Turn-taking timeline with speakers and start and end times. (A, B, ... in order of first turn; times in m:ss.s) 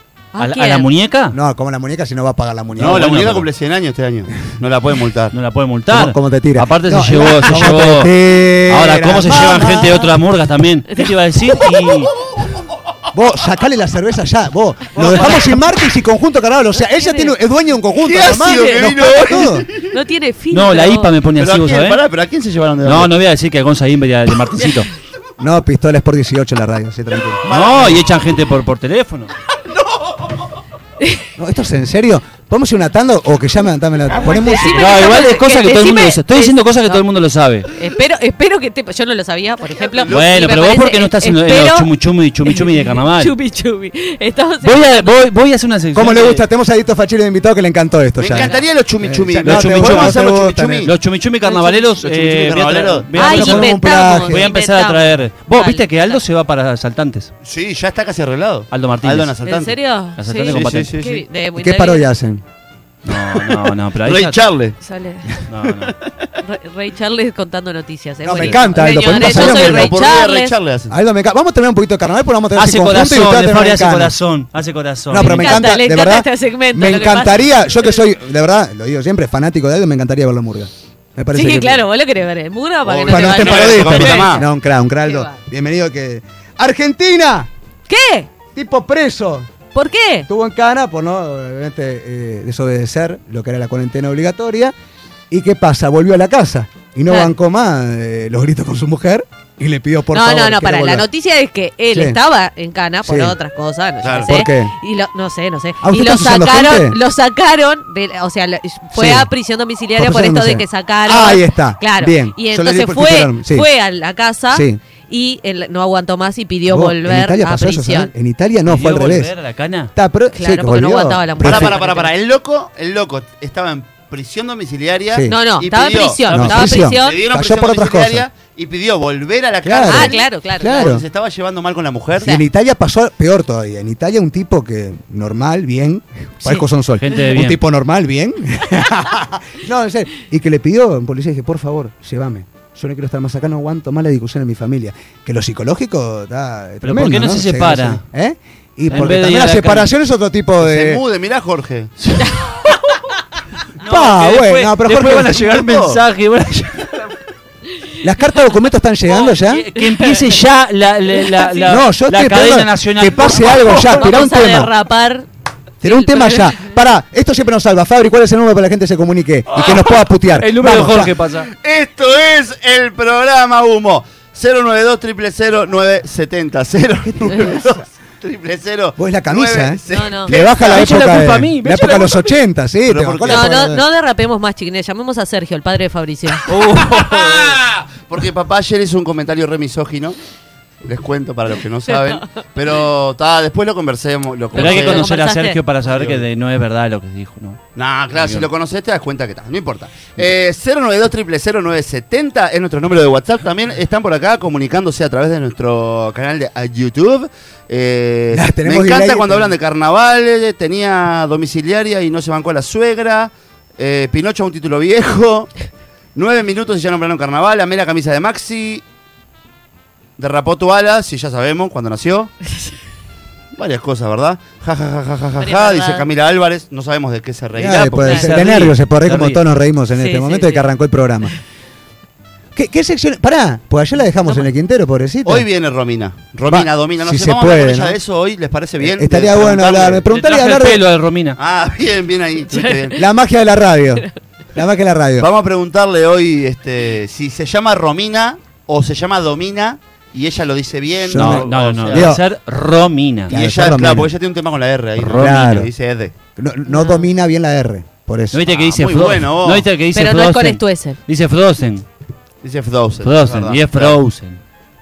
0:00.3-0:00.9 A
0:00.4-0:01.4 B
0:01.3-0:03.5 C
0:02.8-0:05.3 D
0:02.8-0:03.2 B
0:05.3-0:08.1 B
0:05.9-0:10.1 C
0:08.7-0:12.1 B
0:13.1-0:19.7 C
0:15.0-0:15.6 B
0:16.9-0:17.4 A
0:18.0-0:20.0 D
0:18.4-0:18.9 A
0:19.9-0:21.1 A
0:20.5-0:22.0 B
0:21.4-0:23.1 D
0:22.8-0:24.9 B
0:25.4-0:27.4 C
0:27.5-0:28.0 D
0:27.5-0:29.3 B
0:31.4-0:34.9 C
0:34.2-0:37.0 A
0:34.7-0:37.7 B
0:37.7-0:41.9 A
0:39.7-0:40.4 D
0:40.1-0:43.3 B
0:42.4-0:45.2 A
0:44.6-0:46.4 B
0:45.9-0:50.9 C
0:48.2-0:51.0 D
0:48.3-0:48.6 A
0:49.4-0:57.3 B
0:51.4-0:52.0 A
0:52.0-0:53.1 D
0:53.2-0:54.5 C
0:53.2-0:56.2 A
0:57.4-0:59.8 D
0:58.7-0:59.4 B
0:59.4-1:02.1 A
1:00.1-1:01.0 B
1:00.4-1:01.2 D
1:01.6-1:02.4 C
1:03.0-1:04.4 B
1:03.1-1:04.8 D
1:04.8-1:05.4 A
1:05.5-1:06.0 B
1:05.8-1:06.3 D
1:06.4-1:10.5 A
1:08.2-1:10.1 C
1:08.4-1:09.1 B
1:09.1-1:10.9 D
1:10.9-1:14.2 C
1:12.6-1:15.6 B
1:15.1-1:21.8 C
1:15.2-1:17.9 A
1:21.3-1:24.5 A
1:22.9-1:24.4 D
1:23.1-1:27.5 C
1:25.0-1:25.4 A
1:27.9-1:28.3 A
1:28.5-1:29.5 C
1:29.7-1:30.3 A
1:30.3-1:34.7 C
1:35.3-1:41.1 C
1:40.1-1:58.1 A
1:41.9-1:42.2 C
1:43.0-1:43.4 C
1:44.0-1:44.3 D
1:44.2-1:44.8 C
1:45.8-1:47.0 C
1:48.9-1:49.3 C
1:50.0-1:53.7 C
1:54.5-1:54.8 C
1:56.6-1:59.3 C
1:58.6-1:59.9 B
2:00.0-2:01.8 C
2:00.3-2:02.1 A
2:01.4-2:06.3 D
2:05.1-2:05.4 C
2:05.2-2:07.2 A
2:06.2-2:06.8 B
2:06.2-2:08.2 C
2:07.0-2:12.3 D
2:09.6-2:11.0 C
2:09.9-2:10.9 A
2:12.2-2:31.0 C
2:16.6-2:17.6 B
2:26.8-2:28.0 B
2:28.9-2:29.9 B
2:30.6-2:32.1 D
2:33.8-2:37.2 B
2:33.8-2:35.4 C
2:35.2-2:36.0 D
2:38.0-2:39.7 C
2:39.1-2:44.1 B
2:39.8-2:40.4 A
2:41.4-2:41.7 A
2:41.6-2:44.7 C
2:43.9-2:45.3 A
2:45.8-2:51.1 C
2:45.8-2:46.8 A
2:49.5-2:51.5 B
2:51.4-3:01.0 D
2:57.3-2:57.7 C
2:59.0-3:03.9 C
2:59.9-3:00.3 A
3:00.6-3:02.3 B
3:02.9-3:03.5 D
3:03.3-3:06.4 A
3:06.5-3:07.6 B
3:06.8-3:10.2 D
3:10.8-3:15.1 D
3:11.9-3:12.4 A
3:14.5-3:15.6 A
3:14.5-3:17.6 B
3:15.8-3:16.2 D
3:17.8-3:35.6 D
3:18.1-3:18.5 B
3:28.3-3:29.5 C
3:36.1-3:38.8 D
3:40.2-3:42.4 D
3:43.5-3:48.2 D
3:45.4-3:46.1 A
3:47.6-3:51.4 C
3:47.6-3:49.4 B
3:48.0-3:48.3 A
3:50.0-3:50.7 A
3:52.6-3:55.5 C
3:54.2-3:54.5 A
3:55.2-4:00.1 D
3:56.5-3:58.0 C
3:58.8-4:00.8 C
4:00.1-4:01.4 B
4:01.4-4:03.0 D
4:02.5-4:03.0 A
4:03.0-4:05.3 C
4:05.2-4:12.1 D
4:11.0-4:12.2 C
4:11.1-4:13.3 B
4:13.3-4:14.1 C
4:13.3-4:16.1 D
4:15.0-4:15.7 C
4:15.1-4:15.4 B
4:16.4-4:18.4 C
4:16.7-4:17.1 A
4:18.3-4:21.8 B
4:18.5-4:19.7 D
4:19.9-4:21.0 A
4:22.4-4:24.0 D
4:23.0-4:24.4 B